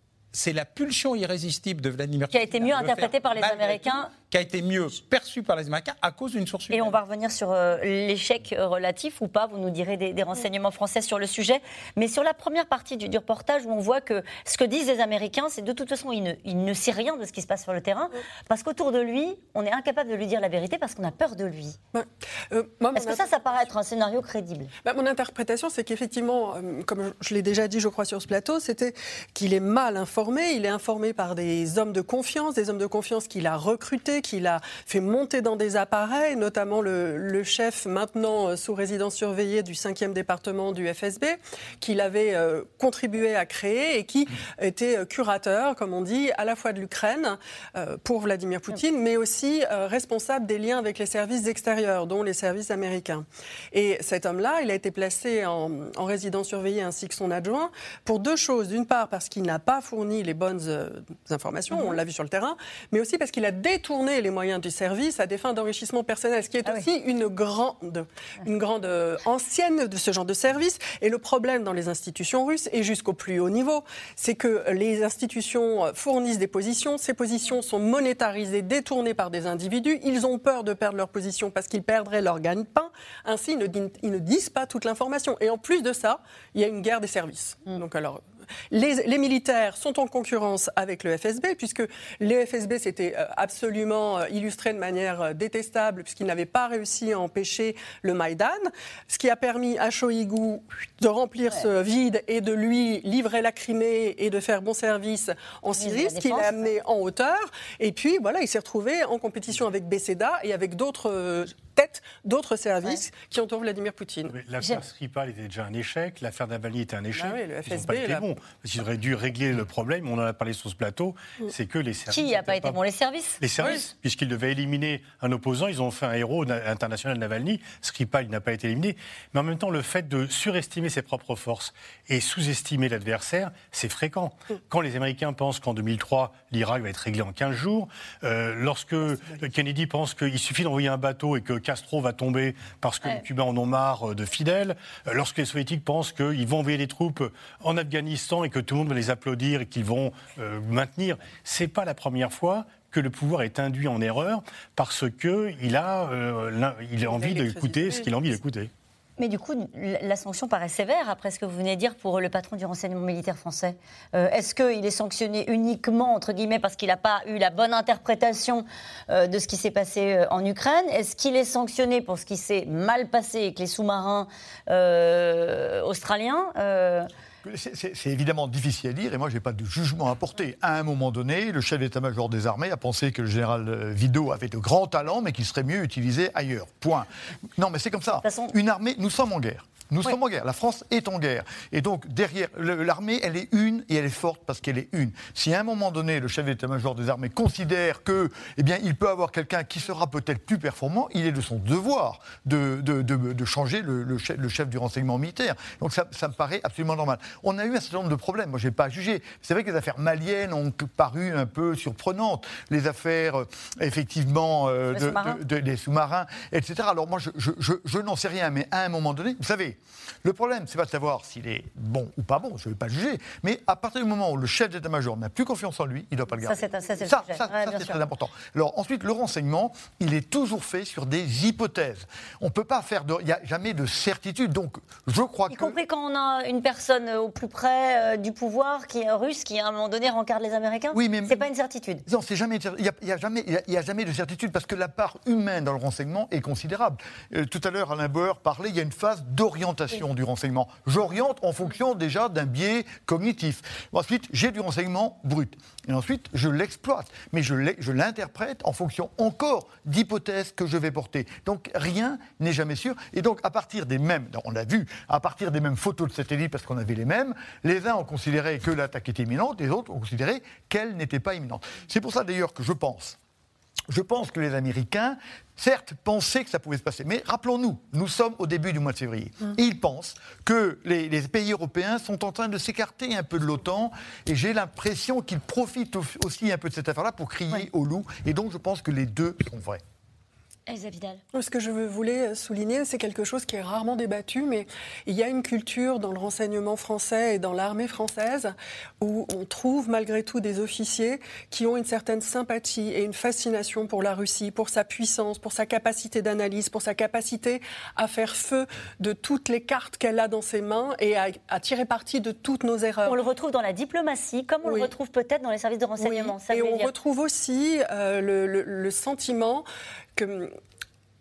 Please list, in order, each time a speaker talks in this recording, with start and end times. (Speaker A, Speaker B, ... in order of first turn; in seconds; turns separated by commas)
Speaker A: 0.3-7.0, Speaker B: 2.3-4.1, Speaker B: 6.7-21.8, Speaker C: 21.9-23.7, Speaker B: 22.9-24.7, Speaker C: 24.8-114.3, Speaker B: 61.7-62.0, Speaker B: 105.8-106.8, Speaker D: 114.3-122.8, Speaker C: 117.1-118.3, Speaker B: 122.1-123.8, Speaker D: 123.4-158.7, Speaker C: 157.0-158.2, Speaker B: 159.2-177.1, Speaker E: 177.4-235.8, Speaker B: 188.2-188.5, Speaker B: 214.9-215.4, Speaker B: 226.4-228.0, Speaker B: 235.5-242.1, Speaker E: 240.9-241.5, Speaker E: 242.1-273.2, Speaker E: 273.9-289.8, Speaker B: 290.7-291.2, Speaker C: 291.3-313.2, Speaker B: 313.1-316.9, Speaker C: 314.6-314.9, Speaker C: 316.0-320.6